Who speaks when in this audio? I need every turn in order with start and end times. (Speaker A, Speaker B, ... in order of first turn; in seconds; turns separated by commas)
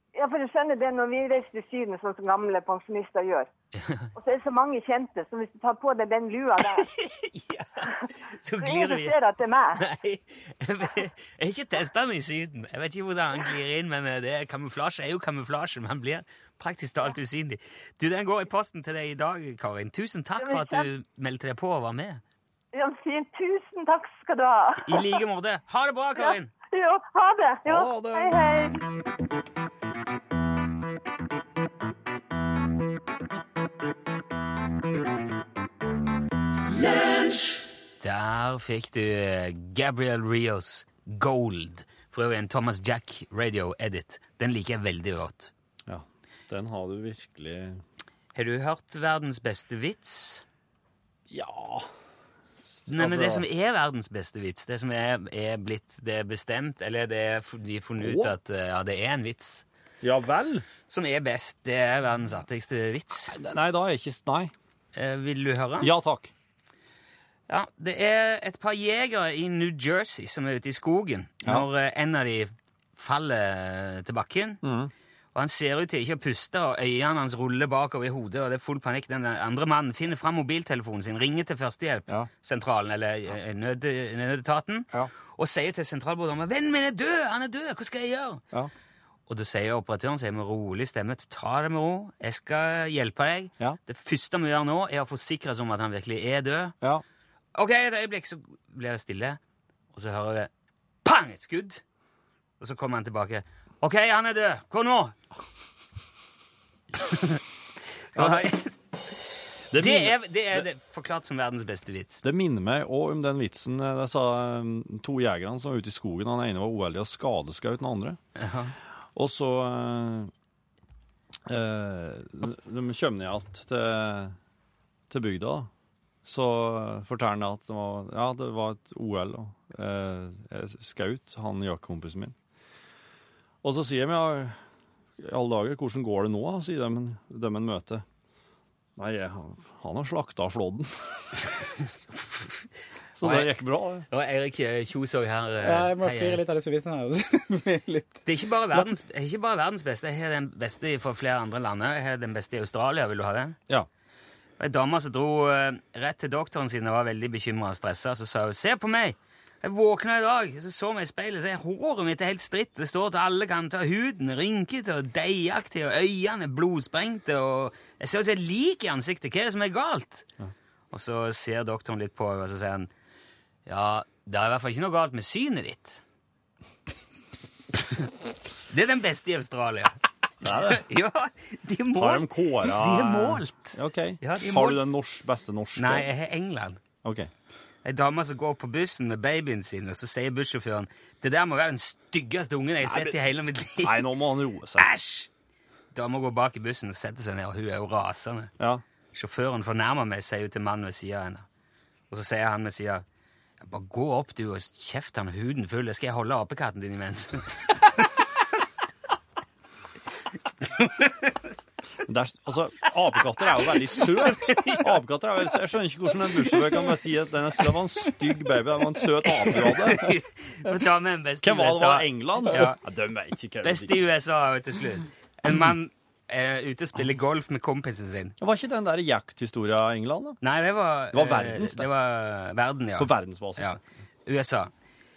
Speaker A: 0.1-3.5, Speaker B: 3.8-4.1, Speaker A: 4.1-6.9, Speaker B: 6.8-9.2, Speaker A: 8.6-9.8, Speaker B: 9.8-22.2, Speaker A: 20.4-20.8, Speaker A: 22.7-25.1, Speaker B: 24.8-26.5, Speaker A: 26.2-28.8, Speaker C: 27.6-28.4, Speaker B: 38.0-45.5, Speaker C: 45.9-47.8, Speaker B: 48.3-50.4, Speaker C: 51.3-51.9, Speaker C: 52.7-53.4, Speaker B: 52.9-59.6, Speaker C: 58.0-58.3, Speaker C: 60.0-60.6, Speaker B: 60.9-63.3, Speaker C: 63.3-64.5, Speaker B: 64.9-65.9, Speaker C: 65.8-66.3, Speaker B: 67.5-74.6, Speaker C: 74.6-74.9, Speaker B: 75.3-88.4, Speaker B: 89.3-96.8, Speaker B: 97.5-99.4, Speaker B: 99.9-100.5, Speaker B: 101.0-101.8, Speaker B: 102.6-105.1, Speaker B: 107.0-107.4, Speaker B: 108.1-108.8, Speaker C: 108.2-108.5, Speaker C: 109.7-110.7, Speaker B: 109.8-112.2, Speaker C: 112.2-118.2, Speaker B: 118.3-118.7, Speaker C: 119.1-120.3, Speaker C: 121.5-124.3, Speaker C: 125.1-125.7, Speaker C: 126.2-132.3, Speaker C: 133.6-134.6, Speaker C: 135.2-138.0, Speaker C: 139.0-141.3, Speaker C: 143.2-144.1, Speaker B: 143.2-143.5, Speaker B: 144.1-146.4, Speaker D: 145.6-148.9, Speaker B: 148.2-153.6, Speaker B: 154.6-170.3, Speaker B: 170.9-172.9, Speaker B: 173.7-176.0, Speaker B: 178.7-180.0, Speaker C: 180.4-180.8, Speaker B: 180.6-184.8, Speaker C: 181.9-186.1, Speaker B: 185.8-186.8, Speaker C: 187.0-187.3, Speaker B: 187.8-194.1, Speaker C: 192.8-193.2, Speaker C: 193.8-194.9, Speaker B: 194.8-195.3, Speaker B: 195.9-198.5, Speaker B: 199.1-201.4, Speaker B: 202.1-203.0, Speaker B: 203.6-207.9, Speaker B: 210.8-211.2, Speaker C: 212.1-220.2, Speaker B: 214.4-214.9, Speaker B: 219.4-222.8, Speaker C: 221.4-223.9, Speaker B: 223.6-228.4, Speaker C: 228.4-230.4, Speaker B: 230.4-234.7, Speaker C: 231.1-231.9, Speaker C: 232.9-233.8